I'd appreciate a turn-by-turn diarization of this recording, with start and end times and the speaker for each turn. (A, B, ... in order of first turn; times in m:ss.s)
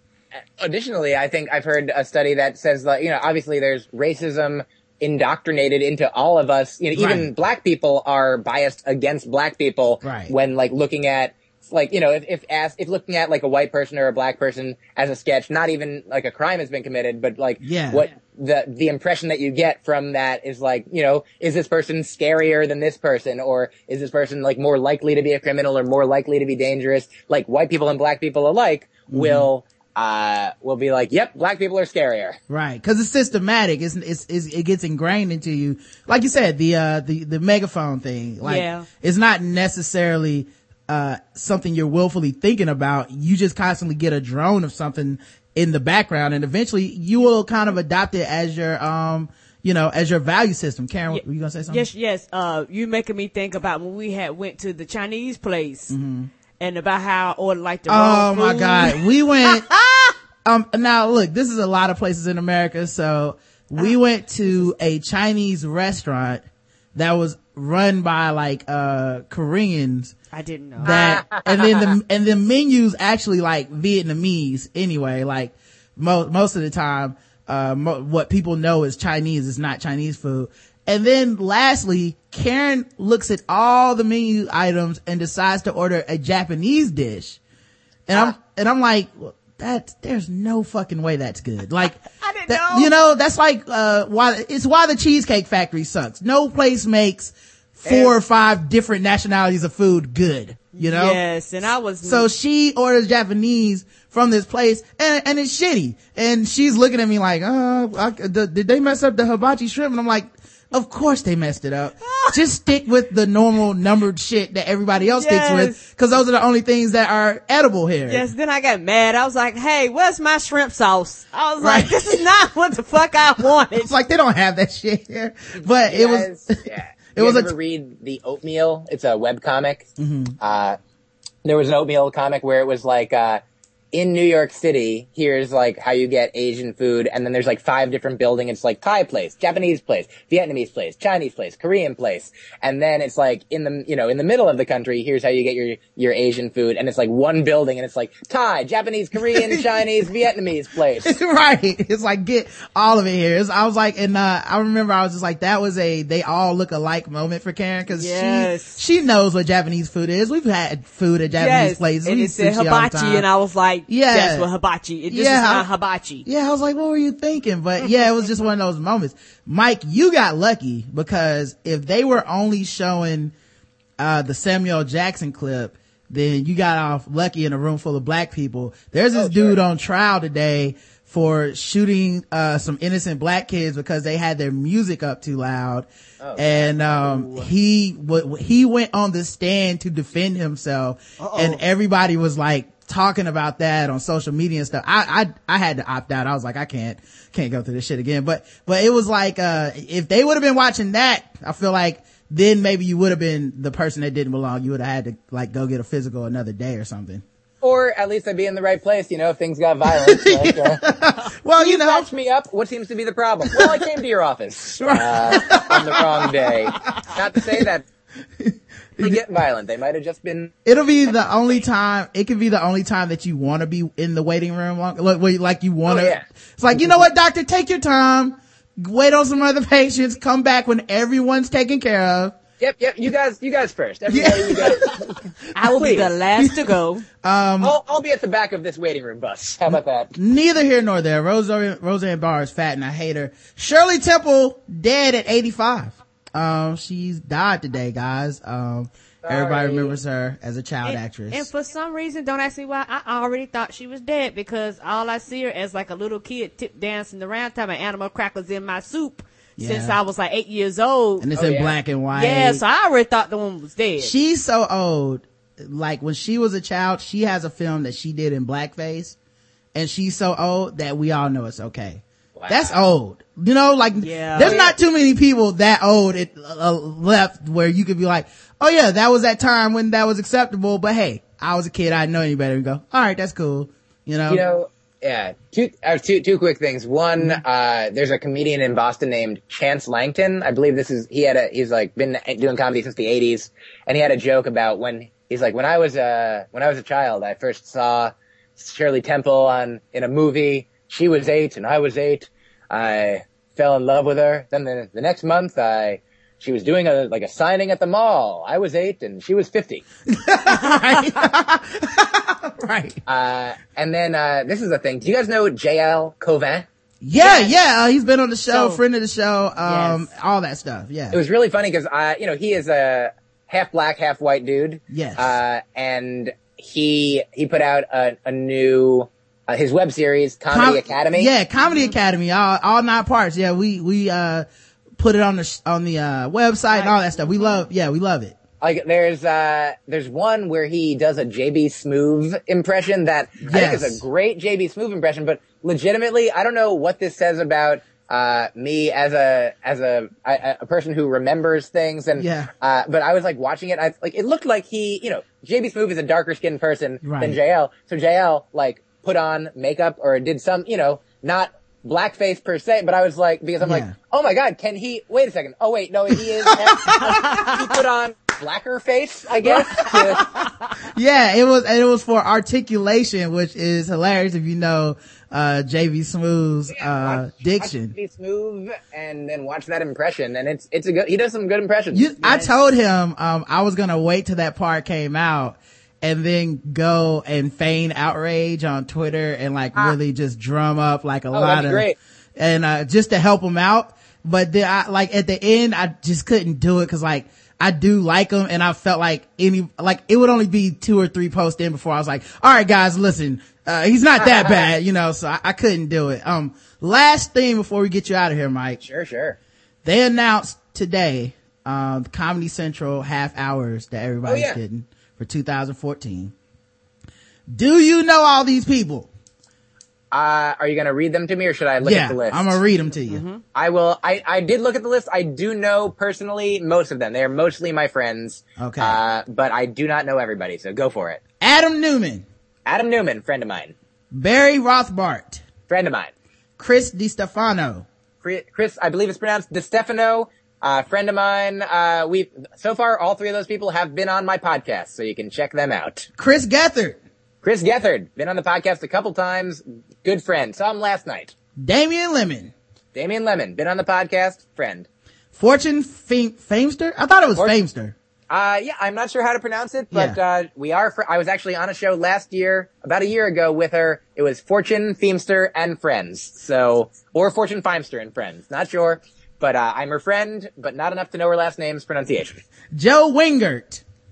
0:00.6-0:32.4 A
0:07.0-0:07.3 B
0:10.0-0:10.3 B
0:17.6-0:18.1 B
0:29.1-0:29.5 B
0:32.5-0:51.8 B
0:38.4-0:38.8 C
0:51.1-0:55.9 C
0:55.9-0:56.3 B
0:56.6-1:00.1 C
0:57.9-0:59.7 B
1:00.4-1:06.4 B
1:03.8-1:04.7 C
1:06.9-1:10.1 B
1:10.3-1:11.2 C
1:10.8-1:27.4 B
1:10.8-1:11.9 A
1:28.1-1:41.2 B
1:32.2-1:32.9 C
1:37.8-1:38.1 C
1:40.7-1:42.2 C
1:42.0-1:58.2 B
1:52.0-1:52.4 C
1:55.0-1:55.8 C
1:58.0-2:03.9 C
2:01.6-2:02.2 B
2:03.8-2:06.6 B
2:05.8-2:10.8 A
2:07.1-2:07.5 B
2:10.0-2:10.4 B
2:11.4-2:13.4 A
2:13.9-2:31.2 A
2:29.2-2:29.6 B
2:31.0-2:43.2 B
2:37.9-2:38.8 C
2:41.3-2:46.2 C
2:43.9-2:44.5 B
2:45.1-2:45.7 B
2:46.2-2:53.3 B
2:54.0-3:27.2 B
2:59.1-2:59.6 A
3:06.2-3:07.4 A
3:11.2-3:11.6 C
3:27.6-3:30.8 A
3:29.8-3:32.1 B
3:31.6-3:37.8 A
3:33.5-3:33.8 B
3:34.8-3:37.6 B
3:38.4-3:39.2 B
3:39.0-3:40.5 A
3:40.6-3:52.3 B
3:45.8-3:46.2 A
3:46.8-3:47.0 A
3:52.6-3:55.1 A
3:54.1-3:55.0 B
3:55.5-3:57.0 C
3:55.7-3:56.1 A
3:56.4-3:56.7 B
3:57.2-3:57.7 B
3:57.6-4:00.1 A
4:00.1-4:11.5 B
4:09.2-4:10.0 A
4:10.8-4:21.3 C
4:19.6-4:20.0 B
4:21.2-4:22.6 B
4:21.3-4:21.8 A
4:22.1-4:24.1 C
4:24.0-4:29.2 B
4:29.7-4:44.4 B
4:32.4-4:32.7 A
4:34.0-4:34.7 C
4:44.3-5:09.8 A
5:10.1-5:13.0 B
5:13.0-5:16.7 A
5:17.0-5:21.2 B
5:17.2-5:17.6 C
5:18.5-5:18.8 C
5:19.6-5:20.0 C
5:21.1-5:31.3 A
5:24.9-5:25.3 B
5:30.5-5:34.4 B
5:31.6-5:31.9 C
5:35.0-5:38.4 B
5:36.7-5:37.6 C
5:38.6-6:10.2 A
5:43.4-5:44.0 B
5:52.2-5:52.5 B
5:57.0-5:57.4 B
6:03.6-6:03.9 B
6:06.4-6:07.5 B
6:07.1-6:07.5 C
6:09.4-6:10.0 B
6:10.1-6:10.7 C
6:10.9-6:17.9 B
6:16.7-6:22.1 A
6:21.9-6:48.8 B
6:22.2-6:22.5 C
6:31.3-6:32.0 A
6:48.8-6:49.4 A
6:49.8-6:56.3 B
6:54.2-6:54.6 A
6:57.5-6:59.1 B
7:00.1-7:02.6 A
7:01.8-7:03.2 B
7:03.1-7:03.4 C
7:03.5-7:11.2 A
7:08.6-7:09.0 B
7:11.4-7:12.2 B
7:12.6-7:13.7 A
7:14.1-7:15.4 B
7:15.7-7:16.1 A
7:16.6-7:17.8 B
7:18.2-7:26.1 A
7:26.2-7:27.0 B
7:27.4-7:31.3 A
7:31.6-7:32.5 B
7:32.9-7:34.9 A
7:35.3-7:37.9 B
7:38.3-7:52.4 A
7:39.9-7:40.2 B
7:52.7-7:53.8 B